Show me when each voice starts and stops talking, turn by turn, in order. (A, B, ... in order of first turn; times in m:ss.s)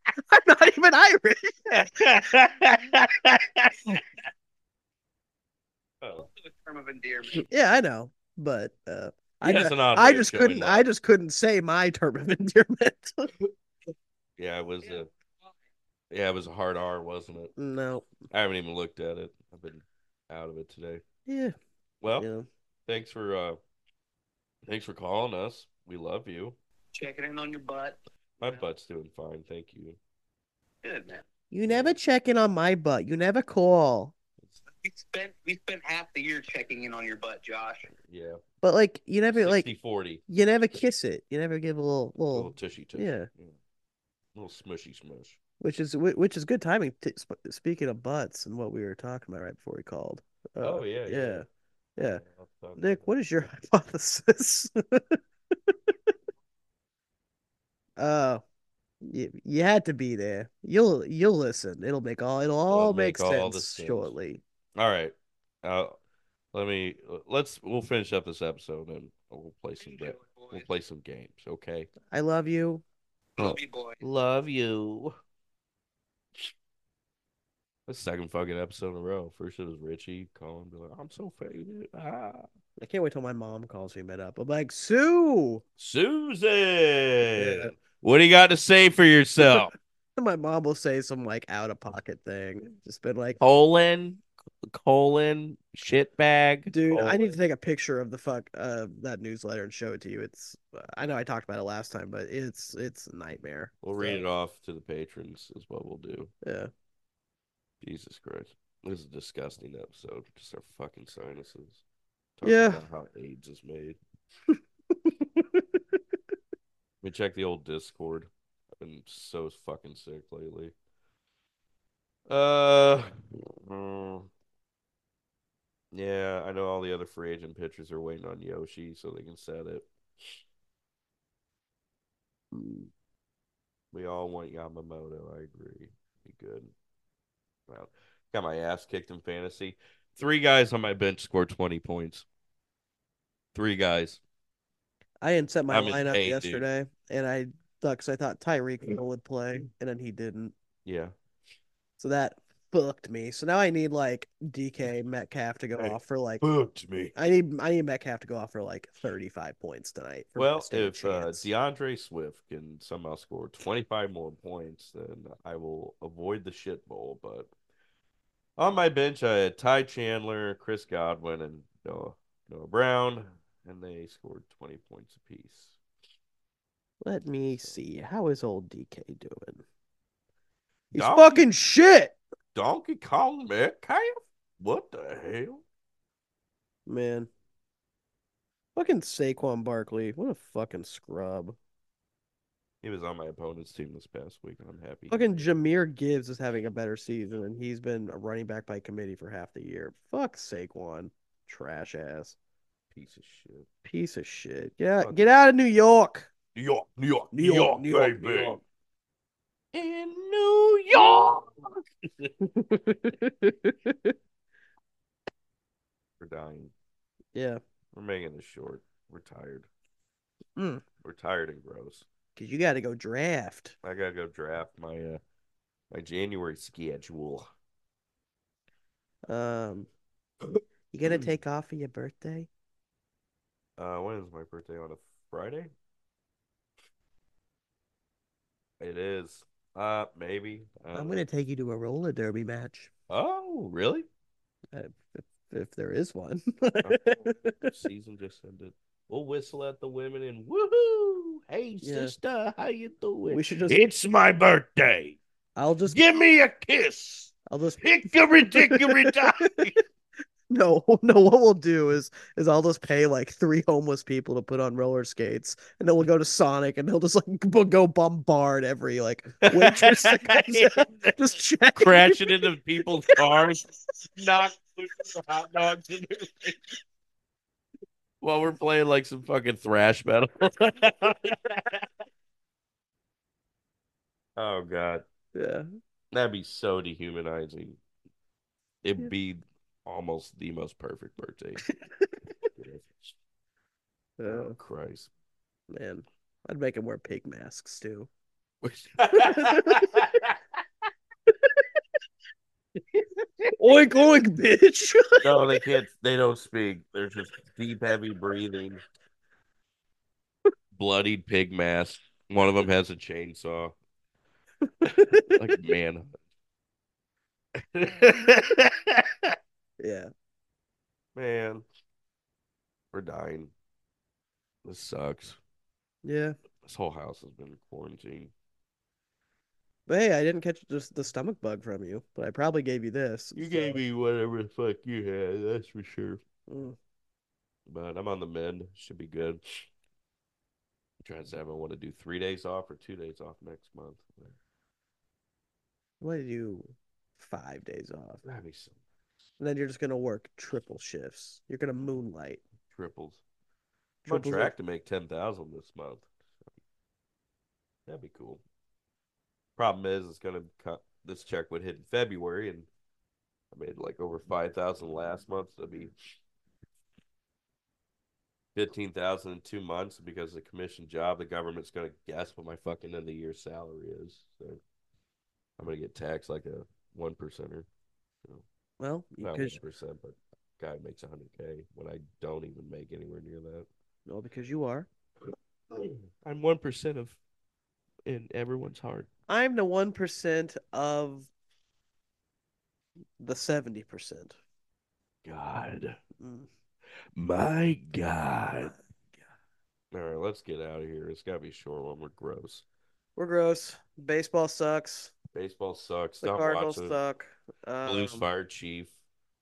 0:00.3-0:01.7 A
0:01.7-0:04.0 B
0:06.0-0:06.3 B
0:06.2-0:07.5 C
0:07.5-0:13.3 A
0:09.4-0:10.8 B
0:14.4-0:15.1 B
0:16.1-0:17.5 B
0:17.6-0:18.1 A
0:18.3-0:21.0 B
0:21.3-0:21.6 A
0:22.0-0:22.3 B
0:22.2-0:22.5 A
0:22.9-0:23.6 B
0:24.6-0:26.6 B
0:26.9-0:28.0 C
0:28.4-0:30.0 B
0:30.8-0:31.2 C
0:31.5-0:34.1 A
0:31.7-0:32.0 B
0:34.8-0:37.9 C
0:38.0-0:38.4 B
0:38.6-0:39.7 A
0:39.3-0:40.2 B
0:40.3-0:43.3 A
0:42.3-0:43.6 B
0:44.4-0:45.4 B
0:45.6-0:51.5 A
0:50.6-0:51.4 B
0:52.0-0:52.2 A
0:52.1-0:53.1 B
0:52.8-0:55.8 A
0:58.0-0:58.4 A
0:59.0-1:04.4 A
1:02.7-1:04.1 B
1:04.8-1:05.9 B
1:06.5-1:11.9 B
1:09.8-1:10.7 C
1:12.1-1:12.8 A
1:13.4-1:14.0 C
1:13.4-1:15.2 B
1:17.9-1:22.5 B
1:22.8-1:25.6 A
1:25.8-1:29.7 B
1:27.4-1:27.7 A
1:30.2-1:33.4 A
1:33.4-1:37.3 B
1:36.7-1:44.2 A
1:43.8-1:46.3 B
1:46.4-1:46.7 A
1:47.8-1:51.8 B
1:52.4-1:54.0 B
1:52.4-1:52.8 A
1:55.0-1:56.0 A
1:57.0-2:00.7 B
2:02.3-2:04.3 B
2:05.9-2:10.4 B
2:12.5-2:12.9 A
2:13.9-2:16.7 B
2:17.7-2:22.3 B
2:23.5-2:24.2 B
2:25.2-2:30.6 A
2:25.7-2:26.6 B
2:30.8-2:31.1 B
2:32.0-2:36.4 A
2:35.8-2:37.2 B
2:37.2-2:41.5 A
2:40.4-2:47.5 B
2:48.6-2:55.8 B
2:57.0-2:59.6 A
3:00.9-3:01.4 B
3:00.9-3:02.2 A
3:02.6-3:05.6 B
3:06.9-3:07.3 A
3:08.8-3:11.6 A
3:12.8-3:15.2 B
3:15.1-3:22.4 A
3:22.9-3:23.7 B
3:23.8-3:26.3 A
3:26.6-3:28.6 B
3:27.3-3:28.6 A
3:29.7-3:32.3 B
3:32.4-3:34.2 A
3:36.2-3:36.7 B
3:37.4-3:37.6 A
3:37.9-3:39.7 B
3:40.6-3:40.8 A
3:41.0-3:42.1 B
3:42.4-3:43.8 A
3:43.8-3:45.2 B
3:45.9-3:47.5 B
3:49.3-3:49.9 A
3:50.9-3:52.5 A
3:51.1-3:51.3 B
3:53.8-3:55.7 B
3:58.8-4:01.2 B
4:00.9-4:02.9 A
4:03.1-4:04.1 B
4:04.7-4:07.7 A
4:06.8-4:15.2 B
4:11.8-4:12.1 A
4:13.3-4:13.8 A
4:15.6-4:16.0 A
4:15.9-4:19.8 B
4:17.5-4:17.8 A
4:18.5-4:19.6 A
4:20.5-4:33.2 A
4:29.4-4:31.2 B
4:31.8-4:36.6 B
4:38.2-4:41.9 B
4:44.4-4:45.1 B
4:45.3-4:45.6 A
4:46.1-4:47.8 B
4:48.8-4:51.6 B
4:51.8-4:52.5 A
4:52.6-4:53.1 B
4:54.2-4:54.6 A
4:54.3-4:55.1 B
4:55.7-4:58.1 A
4:58.6-5:00.4 B
4:59.1-5:00.1 A
5:02.9-5:03.5 B
5:03.6-5:05.3 A
5:05.2-5:08.8 B
5:10.7-5:13.8 B
5:14.8-5:15.3 A
5:15.4-5:16.2 B
5:17.6-5:19.4 B
5:19.8-5:20.1 A
5:21.2-5:21.6 B
5:22.9-5:23.5 B
5:24.6-5:25.4 B
5:26.0-5:26.3 A
5:26.6-5:28.3 B
5:29.9-5:33.8 A
5:33.3-5:36.2 B
5:36.5-5:36.8 A
5:37.7-5:39.7 B
5:41.0-5:44.4 B
5:46.0-5:48.2 A
5:48.2-5:48.8 B
5:49.4-5:52.4 A
5:52.7-5:53.2 B
5:54.0-5:54.5 A
5:54.1-5:56.5 B
5:57.9-5:58.4 B
5:59.6-6:02.7 B
6:03.5-6:05.9 B
6:08.6-6:14.6 B
6:15.6-6:17.7 B
6:18.8-6:19.6 A
6:19.2-6:23.7 B
6:24.1-6:24.9 A
6:25.7-6:27.2 B
6:28.0-6:29.1 B
6:29.3-6:31.3 A
6:33.2-6:34.4 A
6:35.2-6:36.0 B
6:36.2-6:36.5 A
6:37.1-6:38.7 B
6:38.6-6:39.2 A
6:39.9-6:42.6 B
6:43.2-6:45.2 A
6:45.3-6:47.0 B
6:46.2-6:48.3 A
6:47.8-6:49.0 B